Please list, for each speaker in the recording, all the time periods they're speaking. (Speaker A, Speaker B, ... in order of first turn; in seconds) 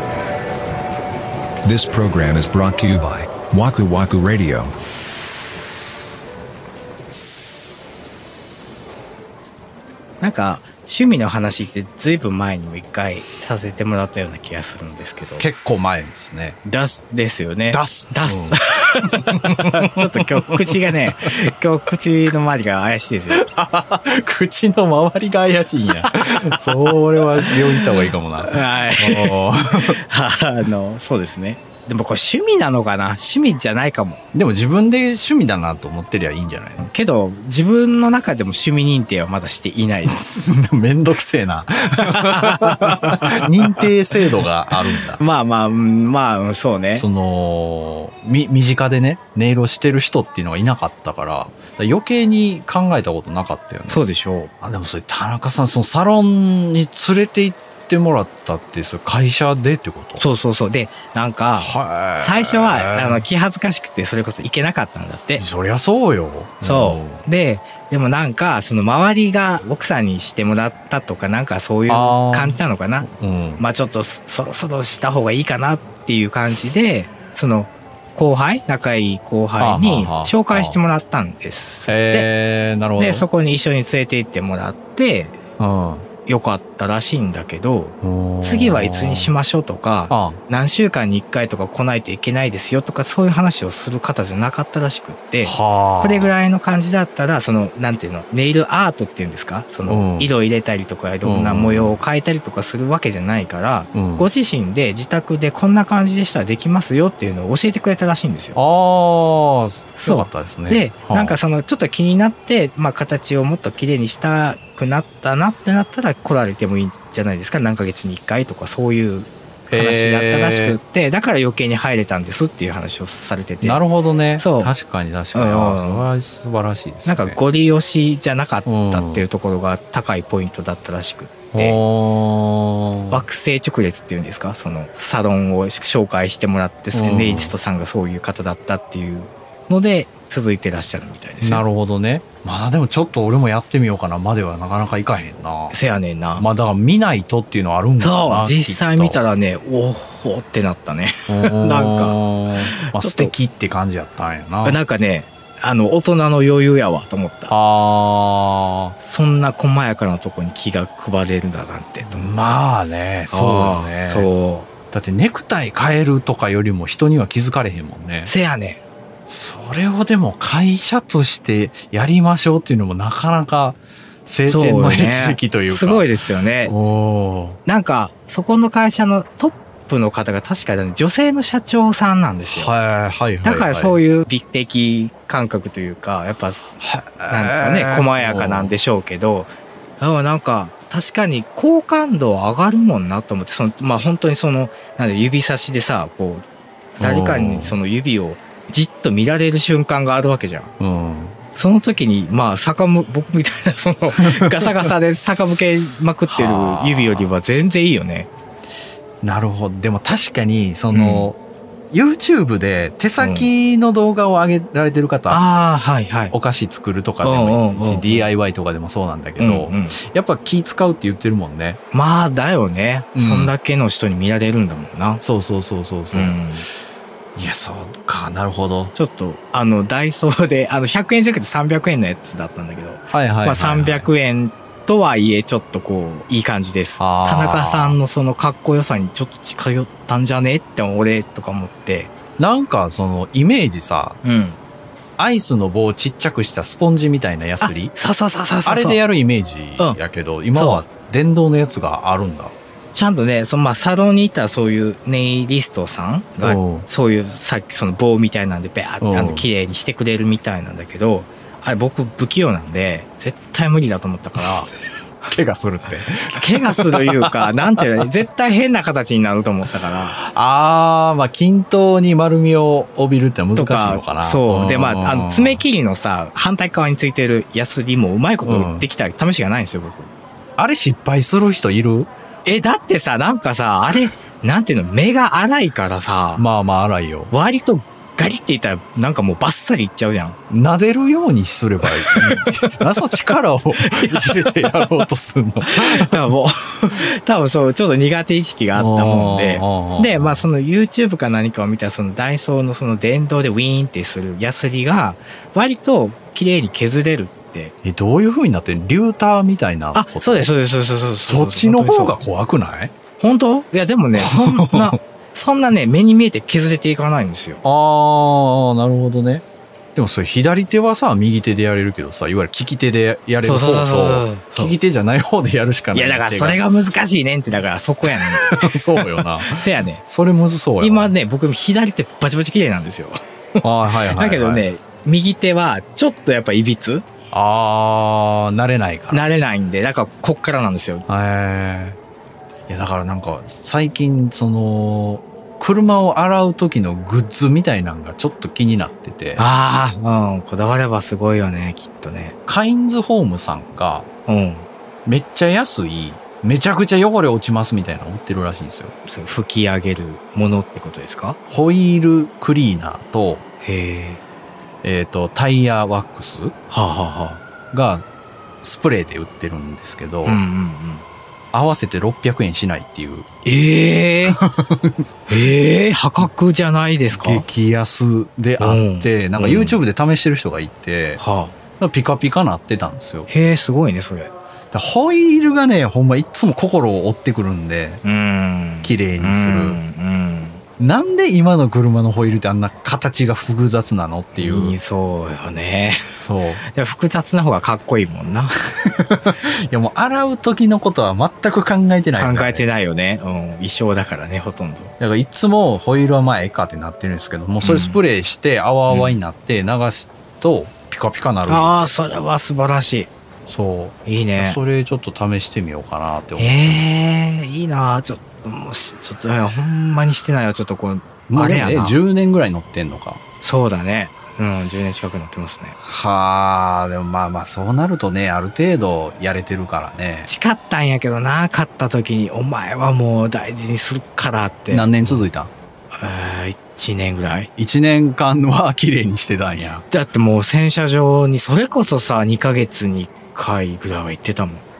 Speaker A: 1.6-4.7
Speaker B: 10.2-15.4, 16.6-23.4, 26.0-29.4, 29.9-34.2, 36.8-40.2, 42.0-43.9, 44.9-47.1, 53.9-54.5, 60.2-65.4, 66.6-82.3, 83.0-85.4, 86.2-108.6, 110.0-123.8, 124.4-124.7, 125.3-126.1, 127.0-131.8, 133.1-141.6, 145.7-146.4, 148.0-152.2, 152.8-153.3, 154.6-157.5, 159.0-162.3, 163.3-164.7, 168.2-168.8, 174.5-176.7, 177.7-182.7, 183.4-186.7, 187.3-196.4, 197.0-200.7, 201.5-208.3, 210.9-211.3, 213.2-213.5, 215.3-216.3, 217.2-218.3, 219.4-220.0, 221.9-225.2, 226.1-226.7, 228.9-242.1, 244.2-244.6, 247.6-249.0, 250.5-250.9, 252.9-264.7, 265.9-270.2, 273.5-280.1, 282.4-286.4, 287.3-290.4, 291.8-294.8, 295.6-307.7, 309.9-312.2, 313.2-317.6, 323.4-324.8, 325.9-330.0, 330.8-337.0, 339.1-341.0, 349.4-352.4, 354.2-354.7, 359.0-361.4, 363.6-364.2, 366.7-367.4, 370.2-371.0, 373.4-374.4, 375.3-377.4, 378.6-379.8, 381.2-381.5, 383.3-384.3, 388.0-390.6, 394.3-396.1, 396.7-398.6, 402.2-404.9, 407.6-408.0, 408.9-409.2, 411.4-413.1, 414.0-414.6, 416.4-422.0, 423.4-425.8, 430.2-435.2, 435.9-437.5, 439.9-444.6
Speaker C: 15.4-16.6, 17.7-21.3, 23.3-30.0, 34.3-36.9, 40.0-45.2, 47.0-54.0, 54.6-60.2, 61.5-63.2, 65.4-67.2, 71.9-73.6, 79.6-80.8, 81.9-83.2, 85.6-86.1, 88.0-89.3, 90.1-90.4, 95.4-96.3, 99.9-100.3, 101.2-102.0, 103.9-104.3, 108.5-111.4, 119.7-120.8, 123.6-127.4, 128.7-129.3, 131.5-133.2, 136.9-137.5, 141.4-145.8, 146.3-149.2, 151.3-154.8, 157.5-158.9, 162.1-164.3, 164.9-168.3, 169.3-177.6, 182.5-184.0, 186.8-188.7, 197.0-197.8, 200.8-201.3, 204.1-204.9, 206.3-207.3, 209.2-211.4, 211.9-215.4, 216.3-221.8, 223.1-223.5, 225.2-226.4, 227.3-228.9, 233.1-234.1, 237.0-238.0, 242.4-244.2, 245.2-247.9, 248.6-252.5, 256.4-256.9, 259.0-259.5, 265.2-268.0, 270.2-275.6, 278.4-278.9, 280.6-282.1, 286.4-287.3, 290.5-296.3, 298.7-300.4, 307.8-310.5, 311.2-312.9, 314.1-315.0, 317.6-319.4, 319.9-326.6, 328.1-331.1, 333.6-334.6, 337.3-339.2, 341.1-342.0, 342.7-349.5, 352.5-354.1, 355.1-358.9, 361.5-363.4, 364.8-366.5, 367.7-368.0, 368.6-370.4, 371.5-373.2, 374.3-375.0, 377.1-381.2, 381.8-383.3, 384.7-388.0, 388.8-389.8, 390.8-394.7, 396.2-396.6, 398.8-402.6, 405.0-411.8, 413.5-417.0, 421.3-423.2, 425.8-430.3, 434.7-435.5, 437.6-439.8